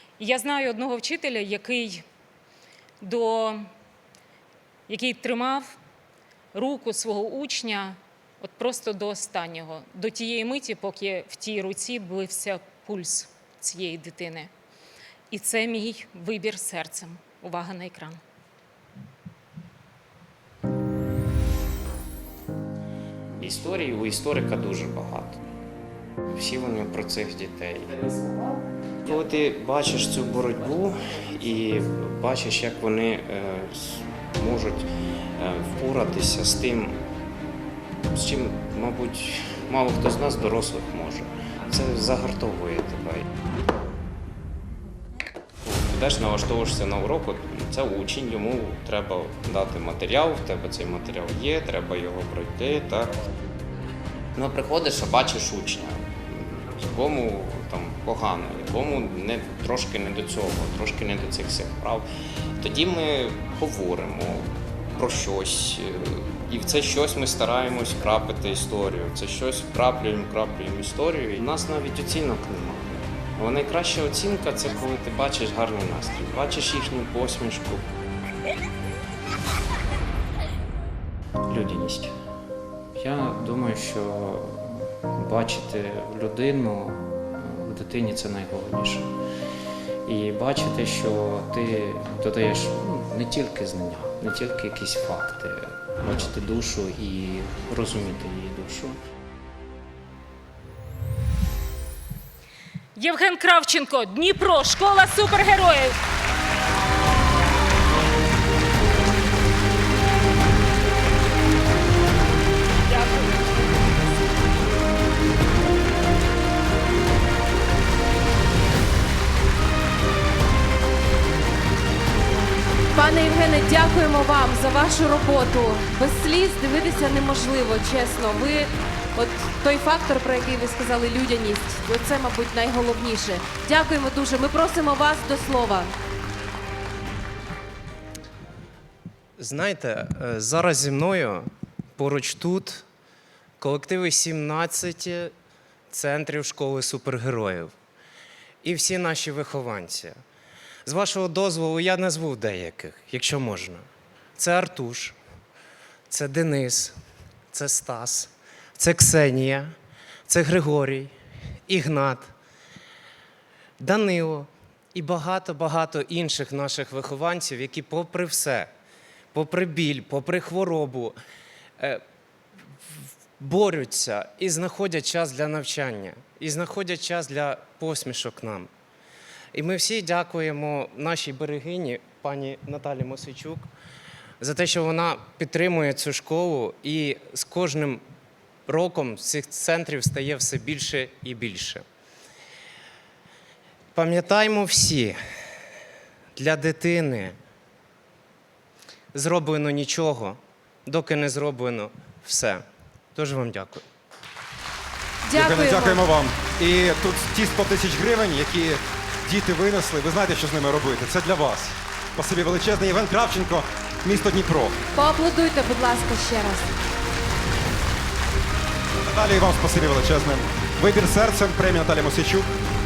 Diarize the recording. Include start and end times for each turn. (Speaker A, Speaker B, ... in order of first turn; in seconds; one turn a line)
Speaker A: 0.2-2.0
Speaker A: 3.0-3.7
Speaker A: 4.9-5.8
Speaker A: 6.5-14.5
Speaker A: 15.3-18.2
Speaker B: 23.4-25.4
Speaker B: 26.3-28.5
Speaker B: 29.1-37.0
Speaker B: 38.1-43.3
Speaker B: 45.6-53.2
Speaker B: 54.3-77.9
Speaker B: 81.5-82.2
Speaker B: 82.9-89.1
Speaker B: 90.0-99.0
Speaker A: 103.0-106.0
Speaker A: 112.9-113.4
Speaker C: 122.9-135.9
Speaker D: 139.4-142.8
Speaker D: 143.6-145.3
Speaker D: 145.9-147.7
Speaker D: 148.6-150.2
Speaker D: 150.8-153.8
Speaker D: 154.4-155.2
Speaker D: 156.1-157.0
Speaker D: 157.5-159.7
Speaker D: 160.3-161.1
Speaker D: 161.7-162.3
Speaker D: 163.8-168.7
Speaker D: 169.3-171.2
Speaker D: 173.4-178.7
Speaker D: 179.5-183.7
Speaker D: 184.4-188.0
Speaker D: 188.7-191.8
Speaker D: 193.9-195.2
Speaker D: 196.3-197.4
Speaker D: 199.1-202.6
Speaker D: 203.1-203.8
Speaker C: 205.2-206.0
Speaker E: 205.3-214.8
Speaker C: 214.9-216.8
Speaker E: 219.0-222.5